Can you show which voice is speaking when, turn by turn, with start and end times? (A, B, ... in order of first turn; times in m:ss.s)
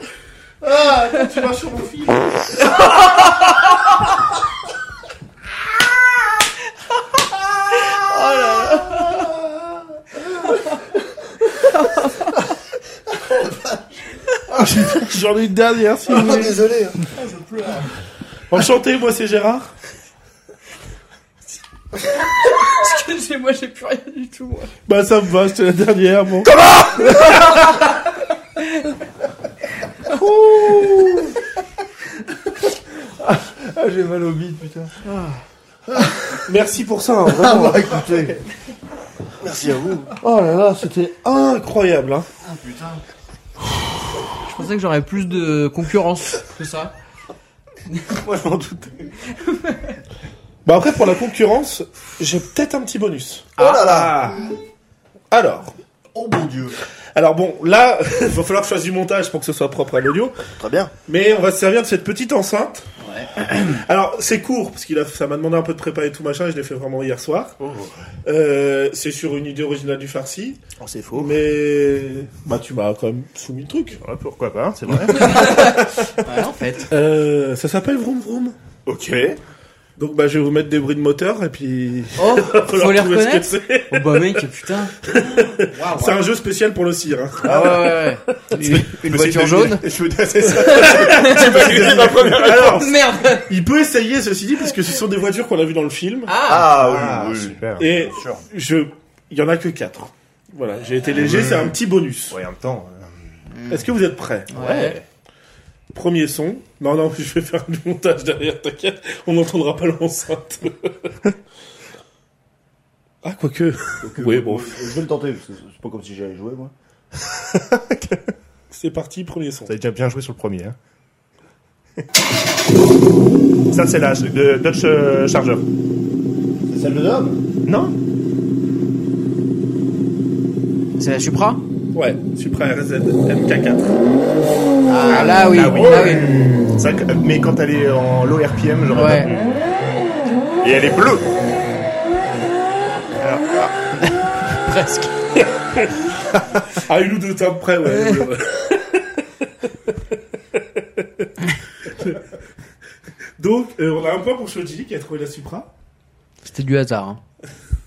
0:00.6-0:02.7 A
0:02.6-0:03.8 B
0:07.7-0:09.3 B
0:11.7-0:12.4 B
0:13.2-0:13.8 C
0:14.5-0:16.6 A
0:16.1-0:17.1 C
0:18.5-0:19.7 A
0:22.2-0:24.7 B
0:24.9-0:26.5 A
0:26.8-0:28.0 B
0:28.6-0:28.9 B
0:30.1-0:31.4 C
0:33.2-0:34.9 C
0:35.0-0:35.4 B
0:35.9-0:36.4 C
0:36.4-0:38.0 A
0:37.2-0:38.4 C
0:39.4-0:40.2 C
0:40.2-0:42.3 A
0:42.4-0:43.0 C
0:44.4-0:46.9 B
0:48.0-0:49.1 C
0:49.3-0:50.0 B
0:50.6-0:54.4 A
0:53.6-0:53.9 B
0:53.6-0:54.4 C
0:55.3-0:55.7 A
0:56.1-0:56.8 C
0:57.1-1:00.4 A
1:00.6-1:00.9 C
1:01.0-1:02.8 A
1:03.0-1:03.6 B
1:03.4-1:07.5 A
1:07.6-1:08.0 D
1:08.2-1:10.6 A
1:10.8-1:11.4 D
1:11.2-1:14.0 A
1:14.0-1:15.6 D
1:15.1-1:16.2 A
1:15.1-1:16.9 B
1:16.9-1:18.6 A
1:18.9-1:19.3 C
1:20.0-1:24.4 A
1:22.2-1:25.0 B
1:25.0-1:28.2 A
1:25.6-1:26.2 B
1:27.4-1:29.8 B
1:28.5-1:32.9 D
1:30.5-1:36.3 A
1:30.6-1:31.5 B
1:31.7-1:32.3 C
1:32.6-1:33.5 B
1:36.3-1:36.8 B
1:36.4-1:37.8 C
1:36.6-1:38.4 D
1:37.8-1:42.4 A
1:41.2-1:41.8 D
1:42.3-1:43.1 D
1:43.5-1:43.8 B
1:43.7-1:44.8 A
1:44.5-1:45.0 B
1:44.5-1:45.0 D
1:45.9-1:51.1 A
1:53.2-1:55.0 A
1:54.0-1:56.7 C
1:57.2-1:58.3 D
1:58.7-1:59.7 A
1:59.7-2:00.8 D
2:03.7-2:05.6 D
2:06.7-2:07.4 C
2:07.6-2:07.9 D
2:11.0-2:11.6 B
2:11.9-2:13.9 A
2:14.9-2:16.3 B
2:15.1-2:19.6 D
2:18.9-2:19.3 B
2:20.6-2:21.2 D
2:23.2-2:23.7 D
2:23.9-2:25.2 B
2:25.6-2:29.2 A
2:27.9-2:28.3 B
2:30.5-2:31.3 A
2:31.8-2:32.2 A
2:33.4-2:35.7 A
2:36.4-2:37.2 B